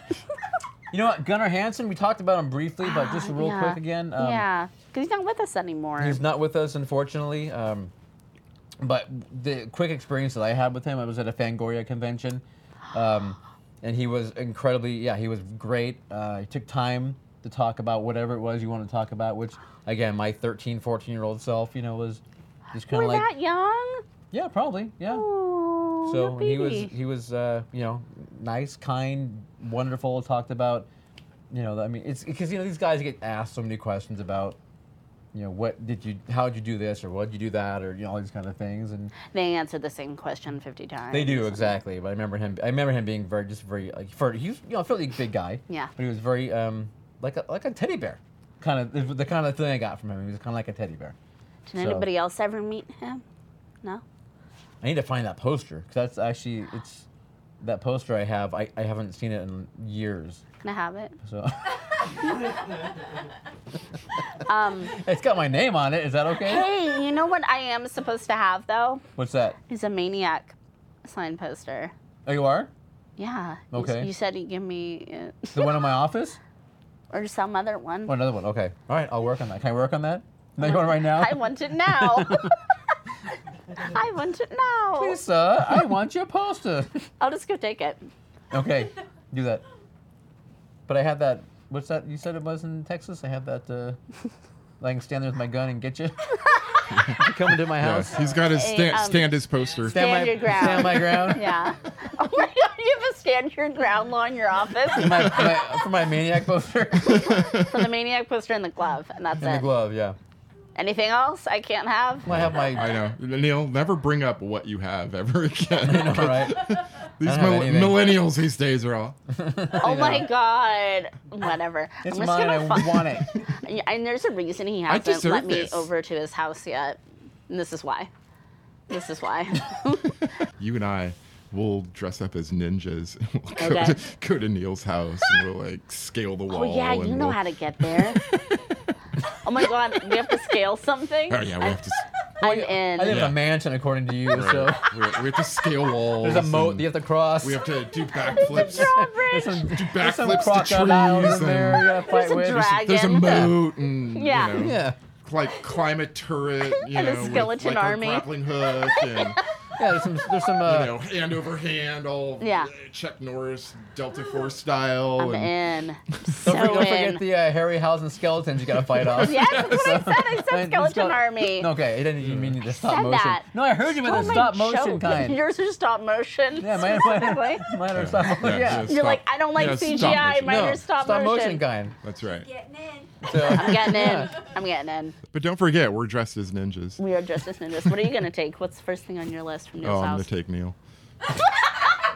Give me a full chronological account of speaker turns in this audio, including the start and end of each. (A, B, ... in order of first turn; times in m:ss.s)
0:00.9-0:04.5 A
0:02.8-0:06.2 B
0:06.0-0:07.9 A
0:08.8-0:22.2 A
0:22.7-0:23.3 A
0:22.9-0:24.0 B
0:24.3-0:25.3 A
0:25.1-0:26.9 B
0:26.0-0:30.9 A
0:31.5-0:34.6 A
0:35.3-0:39.1 A
0:39.3-0:41.8 B
0:41.1-0:51.2 A
0:51.7-0:53.2 B
0:51.8-0:52.1 A
0:54.8-0:57.1 A
0:57.6-1:00.4 A
1:00.6-1:01.2 B
1:01.2-1:02.2 A
1:04.4-1:04.9 B
1:04.9-1:06.7 A
1:06.4-1:09.0 B
1:09.2-1:09.6 A
1:09.7-1:11.9 B
1:12.3-1:12.7 A
1:13.2-1:15.8 B
1:13.7-1:14.1 A
1:15.5-1:16.4 A
1:17.1-1:18.2 B
1:18.1-1:22.5 A
1:20.6-1:22.5 B
1:23.7-1:25.2 B
1:25.0-1:26.9 A
1:27.2-1:28.0 B
1:28.5-1:29.6 A
1:30.9-1:34.0 A
1:34.8-1:36.4 A
1:36.9-1:40.2 C
1:37.1-1:38.3 A
1:38.5-1:45.5 B
1:39.8-1:41.6 A
1:44.9-1:47.5 A
1:47.1-1:47.9 C
1:47.3-1:49.7 B
1:49.4-1:50.2 A
1:50.8-1:52.3 B
1:52.3-1:52.9 A
1:52.3-1:59.2 C
1:55.8-1:56.6 A
1:57.2-1:58.2 A
1:59.3-2:00.3 A
1:59.8-2:08.1 B
2:02.0-2:03.4 A
2:04.9-2:05.9 C
2:08.9-2:10.1 B
2:10.6-2:18.4 C
2:13.6-2:14.0 B
2:16.5-2:18.2 B
2:19.4-2:21.8 B
2:21.3-2:22.0 C
2:22.4-2:23.3 B
2:22.4-2:25.0 A
2:23.1-2:23.5 C
2:24.3-2:29.0 C
2:26.2-2:27.7 A
2:28.3-2:29.7 B
2:28.4-2:33.5 A
2:29.6-2:32.0 C
2:32.0-2:34.8 B
2:32.7-2:39.4 C
2:34.6-2:35.0 A
2:36.9-2:38.3 B
2:39.1-2:39.4 B
2:39.8-2:41.0 A
2:40.6-2:45.5 C
2:42.4-2:42.7 B
2:45.2-2:47.2 B
2:46.4-2:55.4 A
2:48.8-2:50.2 C
2:49.2-2:51.7 B
2:52.2-2:52.6 C
2:52.7-2:57.7 B
2:56.6-2:59.0 A
2:57.9-3:00.8 C
2:58.7-3:01.6 B
2:59.8-3:02.0 A
3:02.0-3:02.6 C
3:03.2-3:04.3 A
3:03.4-3:05.2 B
3:05.3-3:07.0 C
3:07.0-3:10.3 B
3:09.8-3:10.8 C